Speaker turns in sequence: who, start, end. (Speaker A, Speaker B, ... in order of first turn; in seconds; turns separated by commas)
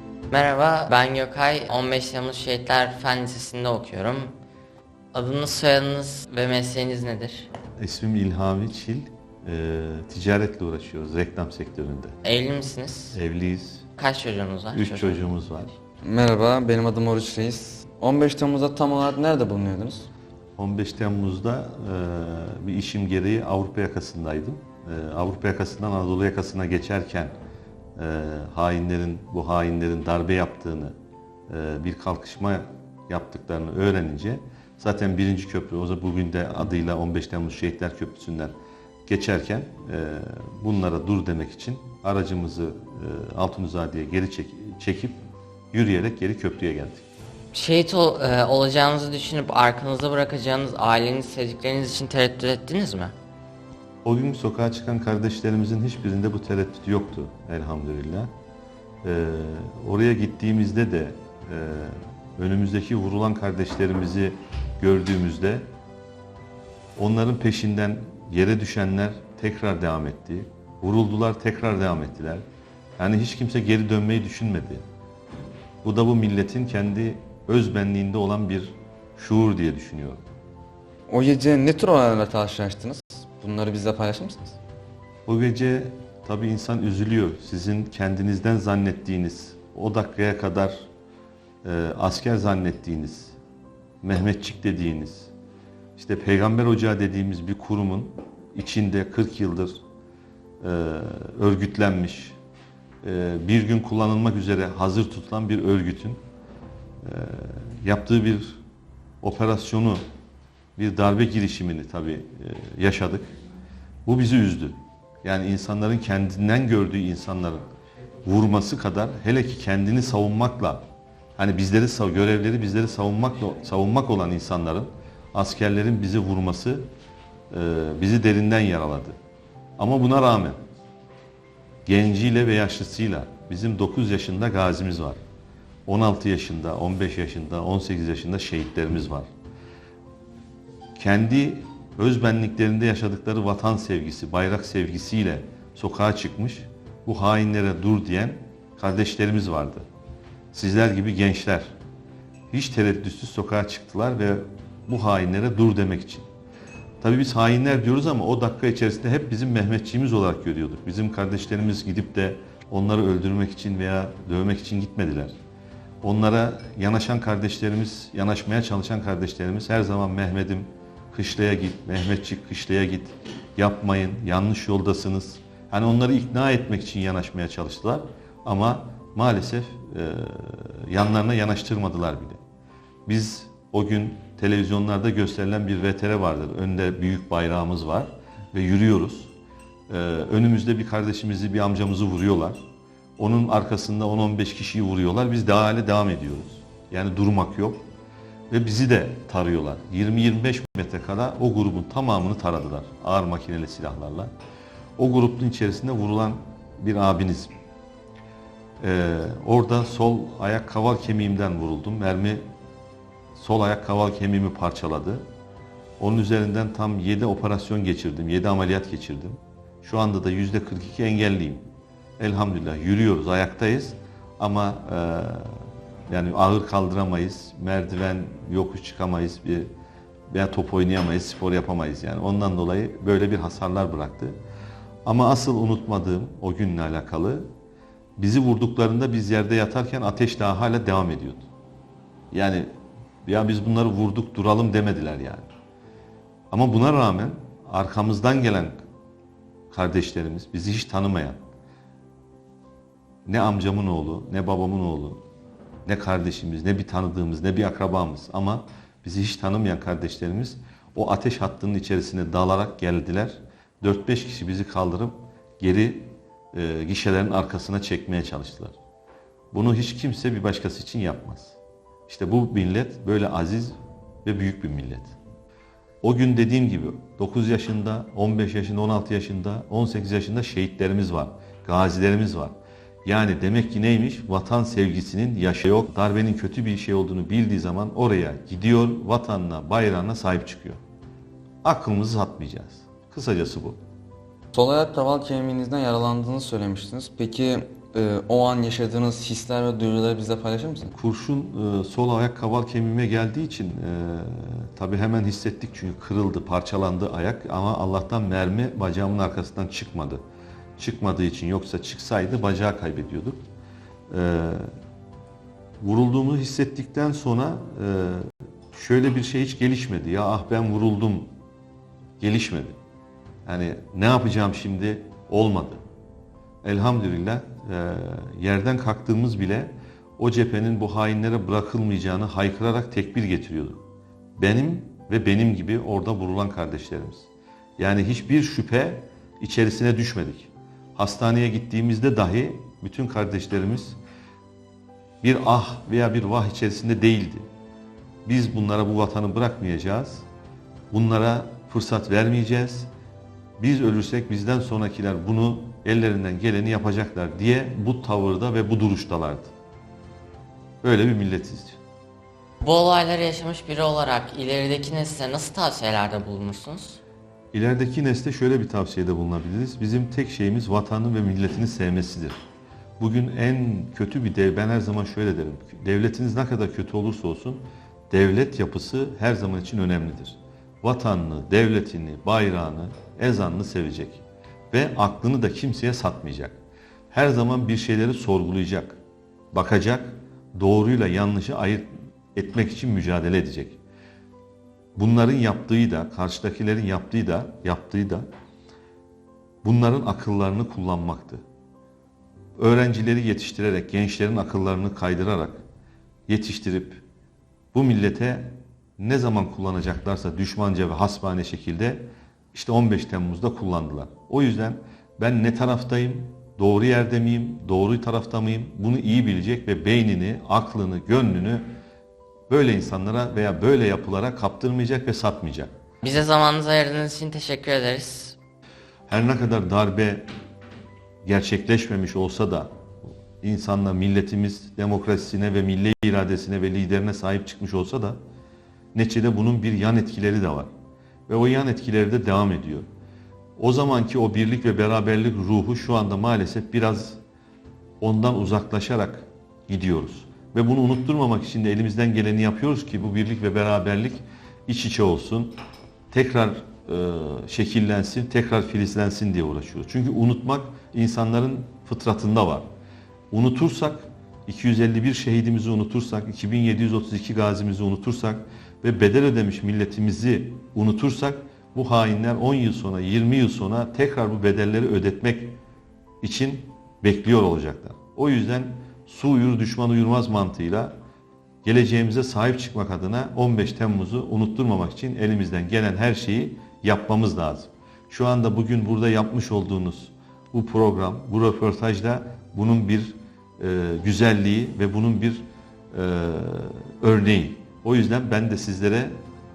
Speaker A: 0.3-4.3, Speaker A: 5.1-7.5, Speaker B: 7.8-12.2, Speaker A: 12.2-13.2, Speaker B: 13.1-13.9, Speaker A: 14.0-15.2, Speaker B: 14.7-15.7, Speaker C: 16.0-20.1, Speaker B: 20.6-27.3, Speaker B: 28.0-30.9, Speaker B: 31.5-38.5, Speaker B: 39.1-45.2, Speaker B: 45.7-47.0, Speaker A: 47.5-53.1, Speaker B: 54.0-58.3, Speaker B: 59.0-65.7, Speaker B: 67.0-72.4, Speaker B: 73.0-74.8, Speaker B: 75.8-80.2, Speaker C: 81.1-84.6, Speaker B: 85.3-90.8, Speaker B: 91.6-93.3, Speaker B: 94.0-95.3, Speaker B: 96.0-99.8, Speaker B: 100.6-102.4, Speaker B: 103.0-106.2, Speaker B: 107.0-108.6, Speaker B: 109.2-110.0, Speaker B: 110.8-113.3, Speaker B: 114.0-117.7, Speaker B: 118.2-120.8, Speaker B: 121.4-126.9, Speaker B: 127.5-129.2, Speaker B: 129.8-130.6, Speaker B: 131.9-135.2, Speaker B: 135.9-139.3, Speaker B: 141.0-149.9, Speaker B: 150.5-151.7, Speaker B: 152.5-156.3, Speaker B: 157.0-165.3, Speaker B: 166.0-182.4, Speaker B: 183.1-189.3, Speaker B: 189.9-192.6, Speaker B: 193.2-197.8, Speaker B: 198.5-204.3, Speaker B: 205.0-207.5, Speaker B: 208.8-212.4, Speaker B: 213.3-215.2, Speaker B: 216.0-221.6, Speaker B: 222.2-229.7, Speaker B: 230.3-234.4, Speaker B: 235.1-237.5, Speaker B: 238.2-241.4, Speaker B: 242.3-242.7, Speaker B: 243.2-245.5, Speaker B: 246.5-248.8, Speaker B: 249.7-251.4, Speaker B: 253.3-255.2, Speaker B: 255.8-268.8, Speaker B: 269.5-275.1, Speaker B: 276.0-290.8, Speaker B: 291.6-293.8, Speaker C: 294.5-300.9, Speaker B: 300.9-310.2, Speaker B: 310.8-313.4, Speaker B: 314.1-314.7, Speaker B: 315.8-321.3, Speaker B: 322.2-322.8, Speaker B: 323.5-325.8, Speaker B: 326.6-333.8, Speaker B: 334.4-344.0, Speaker B: 345.2-347.4, Speaker B: 348.2-350.2, Speaker B: 350.9-352.9, Speaker B: 353.6-359.5, Speaker B: 360.8-361.8, Speaker A: 362.6-367.0, Speaker B: 367.5-372.4, Speaker B: 373.0-386.6, Speaker B: 387.1-389.0, Speaker B: 389.5-393.8, Speaker B: 395.0-398.3, Speaker B: 399.6-401.4, Speaker B: 402.6-405.6, Speaker B: 406.3-407.0, Speaker B: 407.7-421.7, Speaker B: 422.5-425.7, Speaker A: 426.0-428.4, Speaker B: 429.1-430.3, Speaker B: 431.2-432.7, Speaker B: 433.4-438.2, Speaker B: 438.9-440.7, Speaker B: 441.3-442.9, Speaker B: 443.6-447.2, Speaker B: 448.0-455.5, Speaker B: 456.1-462.6, Speaker B: 463.3-475.6, Speaker B: 476.2-480.9, Speaker B: 481.6-499.2